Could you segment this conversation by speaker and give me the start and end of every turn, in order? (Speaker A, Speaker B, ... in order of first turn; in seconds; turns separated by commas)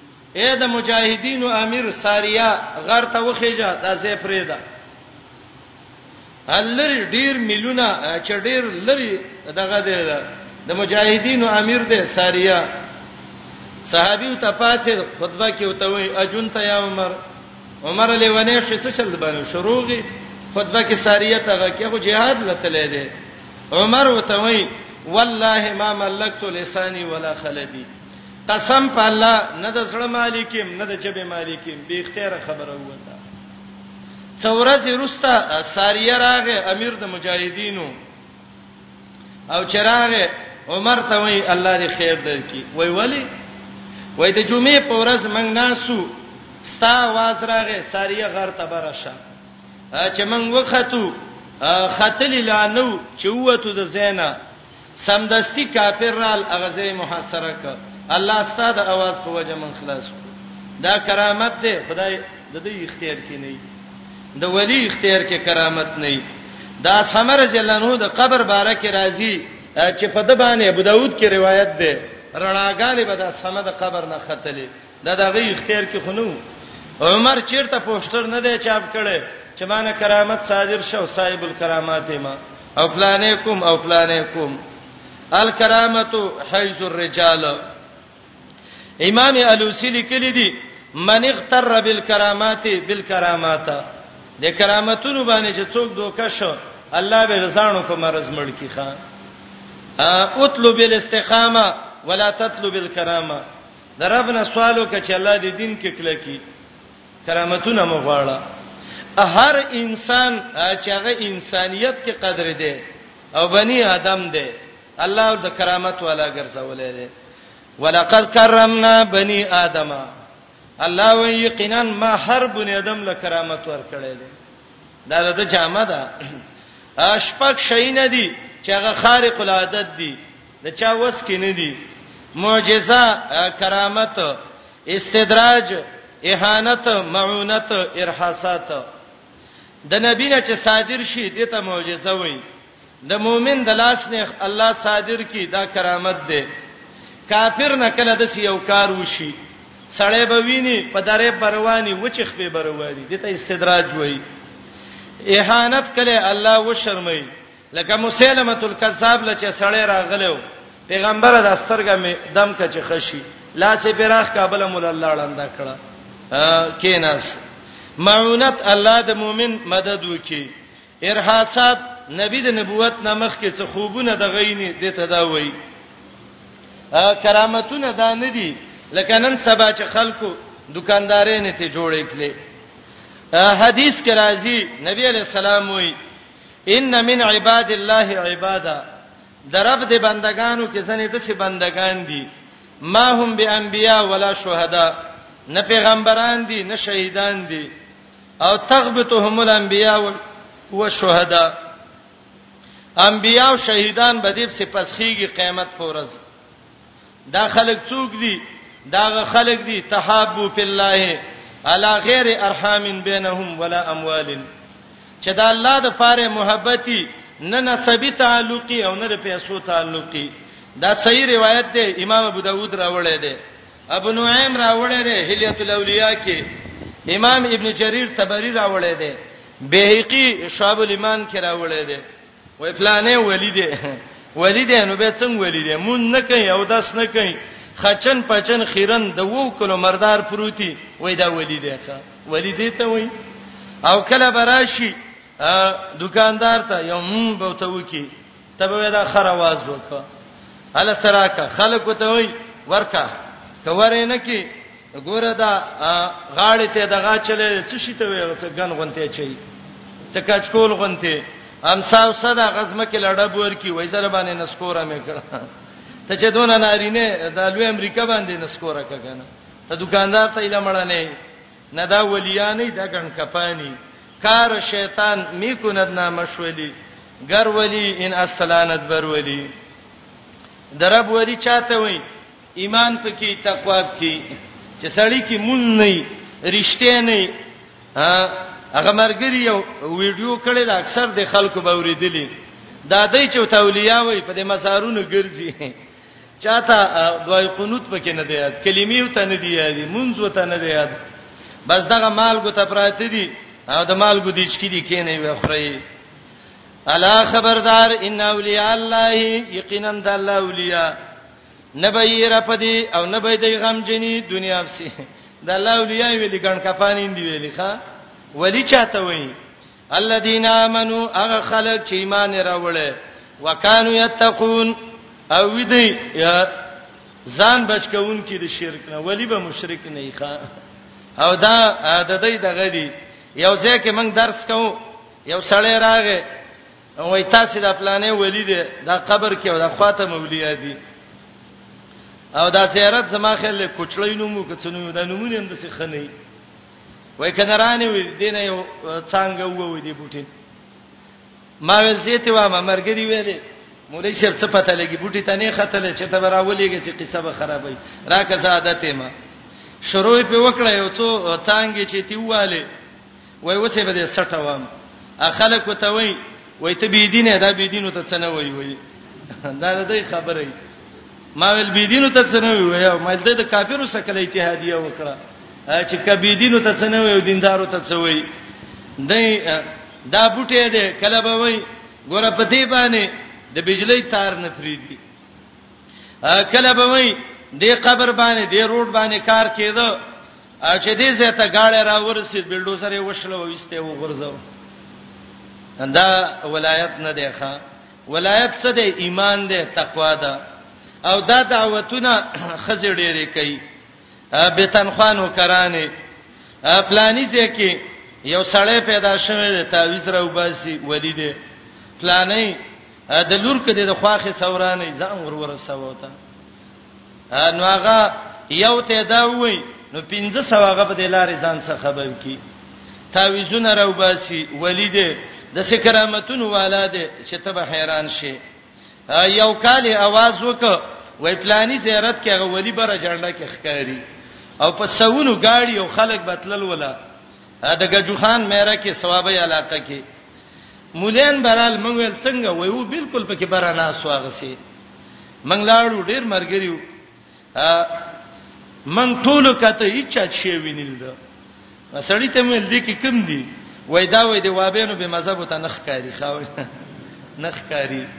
Speaker A: 0.4-4.6, Speaker A: 6.5-12.6, Speaker A: 13.9-17.2, Speaker A: 17.8-23.1, Speaker A: 23.7-27.9, Speaker A: 28.5-33.2, Speaker A: 34.4-37.9, Speaker A: 39.5-43.3, Speaker A: 44.2-46.1, Speaker A: 46.6-49.2, Speaker A: 49.9-54.4, Speaker A: 55.0-63.6, Speaker A: 64.4-66.2, Speaker A: 66.8-76.4, Speaker A: 77.0-84.6, Speaker A: 85.3-87.6, Speaker A: 89.0-93.8, Speaker A: 94.4-99.0, Speaker A: 100.0-103.4, Speaker A: 104.0-106.4, Speaker A: 107.2-108.4, Speaker A: 109.2-112.8, Speaker A: 113.3-117.1, Speaker A: 117.8-120.1, Speaker A: 120.8-124.3, Speaker A: 125.1-126.1, Speaker A: 127.0-131.8, Speaker A: 132.4-138.8, Speaker A: 139.9-142.4, Speaker A: 143.1-146.5, Speaker A: 147.3-149.3, Speaker A: 149.9-154.2, Speaker A: 155.3-165.8, Speaker A: 166.3-167.4, Speaker A: 168.0-170.5, Speaker A: 171.0-175.5, Speaker A: 176.9-182.3, Speaker A: 183.3-185.9, Speaker A: 186.7-188.8, Speaker A: 189.5-192.3, Speaker A: 192.9-194.9, Speaker A: 195.5-197.7, Speaker A: 198.4-200.2, Speaker A: 200.7-201.5, Speaker A: 203.0-206.2, Speaker A: 207.3-214.4, Speaker A: 215.2-223.4, Speaker A: 223.9-226.4, Speaker A: 227.1-232.0, Speaker A: 232.6-243.1, Speaker A: 243.8-250.0, Speaker A: 250.8-253.1, Speaker A: 253.6-254.5, Speaker A: 255.0-259.4, Speaker A: 260.1-265.5, Speaker A: 266.1-271.1, Speaker A: 271.7-276.7, Speaker A: 277.3-279.5, Speaker A: 280.8-282.0, Speaker A: 282.6-284.2, Speaker A: 284.8-287.3, Speaker A: 288.0-292.3, Speaker A: 292.9-295.7, Speaker A: 296.4-301.0, Speaker A: 301.7-305.8, Speaker A: 306.9-310.9, Speaker A: 311.8-314.9, Speaker A: 315.4-317.8, Speaker A: 318.4-319.3, Speaker A: 319.9-324.8, Speaker A: 325.3-326.6, Speaker A: 327.3-330.4, Speaker A: 331.2-336.2, Speaker A: 337.0-340.8, Speaker A: 342.4-346.1, Speaker A: 347.2-350.3, Speaker A: 351.6-359.1, Speaker A: 359.8-362.7, Speaker A: 363.4-364.7, Speaker A: 365.2-368.8, Speaker A: 369.4-370.5, Speaker A: 371.4-375.2, Speaker A: 375.7-378.3, Speaker A: 379.0-385.0, Speaker A: 386.2-390.0, Speaker A: 390.6-394.4, Speaker A: 395.8-400.4, Speaker A: 401.1-403.6, Speaker A: 404.4-405.9, Speaker A: 406.7-411.4, Speaker A: 412.0-412.6, Speaker A: 413.1-416.1, Speaker A: 417.3-422.4, Speaker A: 423.1-428.4, Speaker A: 429.1-434.0, Speaker A: 434.6-436.9, Speaker A: 437.6-440.0, Speaker A: 441.0-444.6, Speaker A: 445.5-446.8, Speaker A: 447.6-448.0, Speaker A: 448.9-451.1, Speaker A: 451.9-456.5, Speaker A: 457.4-458.1